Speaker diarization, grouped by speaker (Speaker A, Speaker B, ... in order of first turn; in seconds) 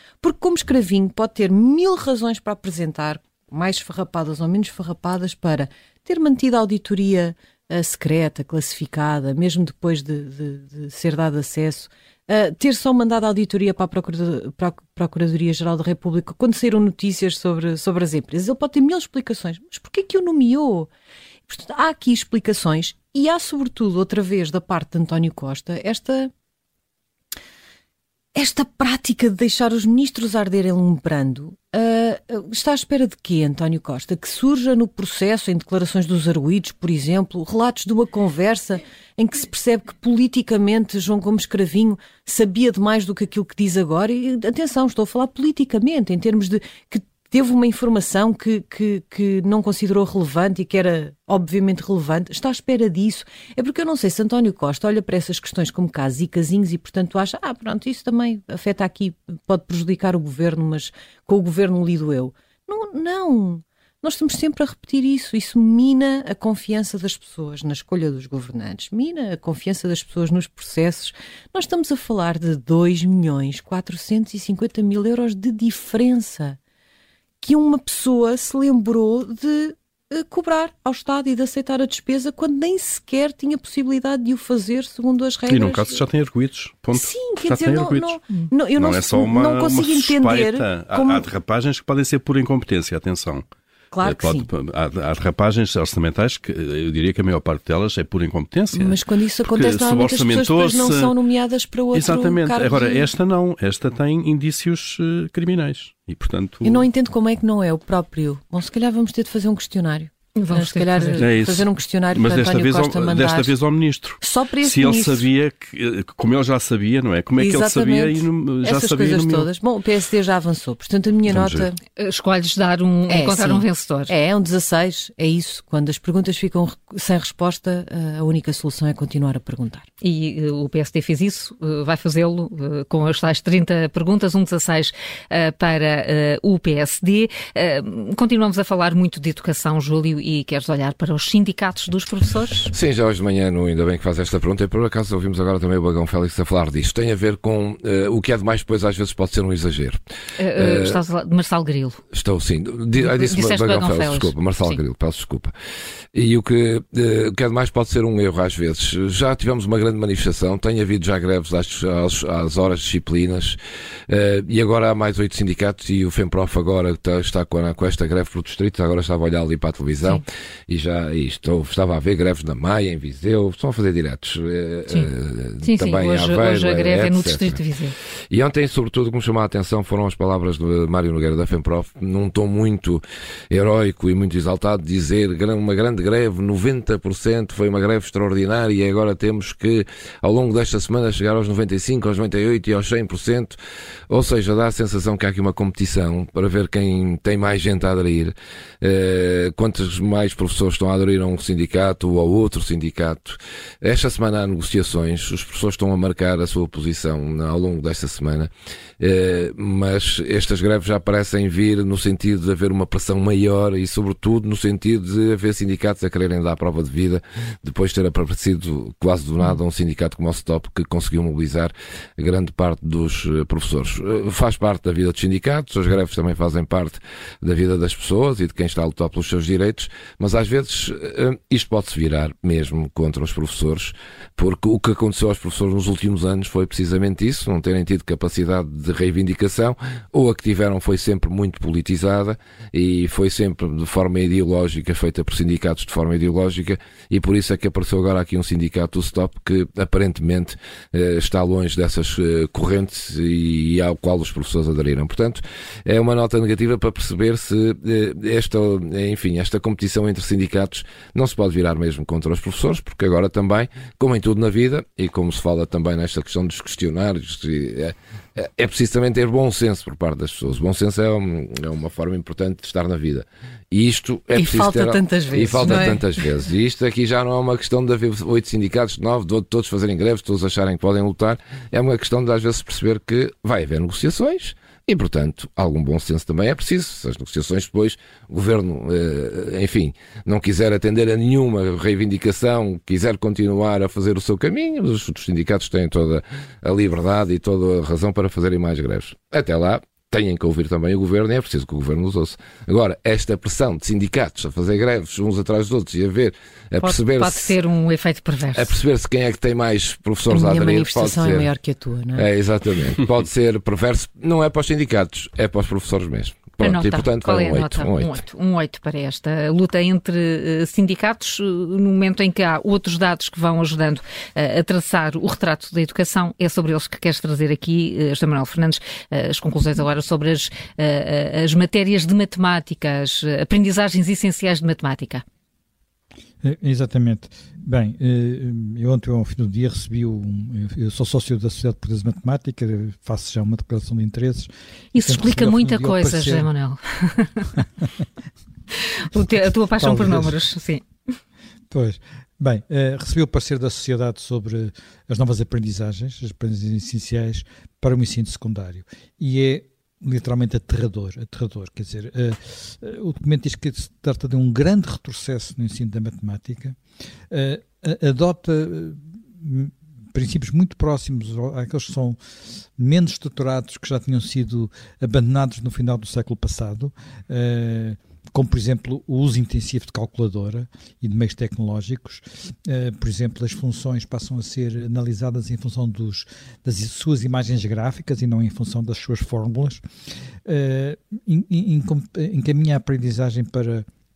Speaker A: 0.2-20.9, 21.5-26.3, 28.3-76.6, 77.4-86.0, 86.9-91.3, 93.9-94.5, 98.7-103.0, 106.6-113.5, 114.2-115.2, 117.4-121.8, 123.1-129.8, 274.3-276.1, 310.3-312.2
Speaker B: 85.5-88.2, 88.8-93.5, 94.0-101.1, 101.9-106.8, 111.2-119.5, 121.3-121.7
Speaker C: 110.3-111.3, 122.0-124.1, 130.0-142.7, 150.4-152.0, 152.9-154.8, 175.6-177.9, 306.8-308.8, 316.6-335.2, 344.9-347.5, 348.8-350.8
Speaker D: 142.7-150.0, 150.6-151.0, 152.1-155.5, 156.1-163.6, 164.1-177.6, 178.3-193.6, 194.1-307.5, 308.5-311.5, 312.1-318.2
Speaker E: 336.4-344.5, 345.0-346.5, 349.8-350.4, 351.7-366.8, 367.3-389.8, 390.4-393.9